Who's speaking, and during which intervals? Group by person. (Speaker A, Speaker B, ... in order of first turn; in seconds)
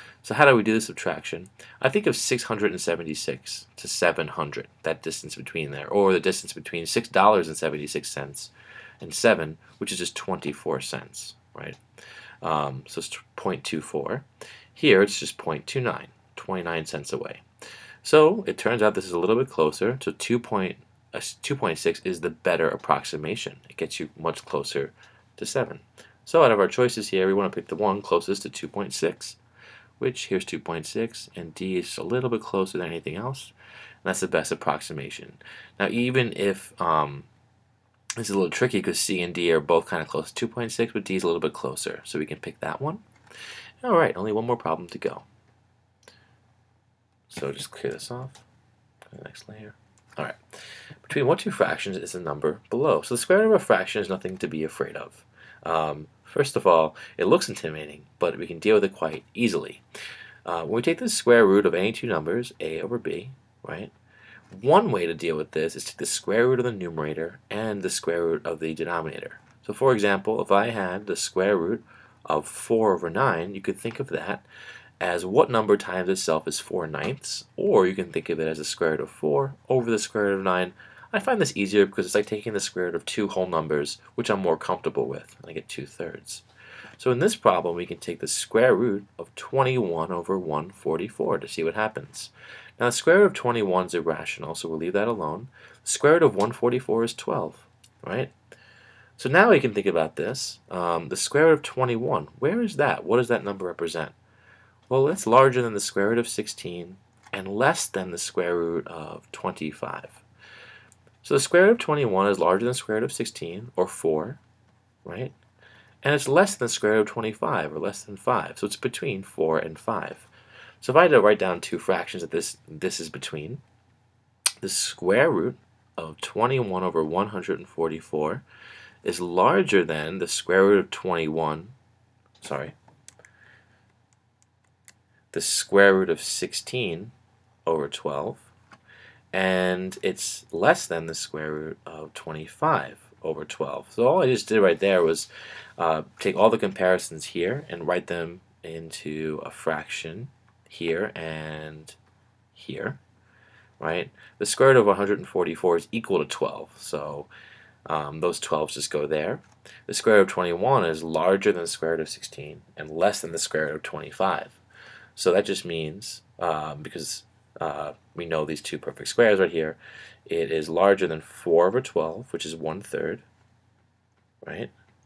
Speaker A: 0.2-11.8, 12.4-17.4, 18.0-29.4, 30.0-37.3, 38.2-43.0, 43.8-45.2, 47.3-48.4, 49.1-50.4, 51.0-59.8, 60.5-63.9, 64.5-74.5, 75.0-86.4, 87.0-98.3, 99.2-104.2, 104.9-110.2, 111.2-114.4, 115.0-115.3, 116.0-120.3, 120.8-123.6, 124.6-128.4, 129.0-131.8, 132.4-132.8, 135.3-137.1, 137.7-138.5, 139.3-152.0, 152.5-153.0, 153.8-157.3, 157.9-164.6, 165.2-173.2, 174.4-174.7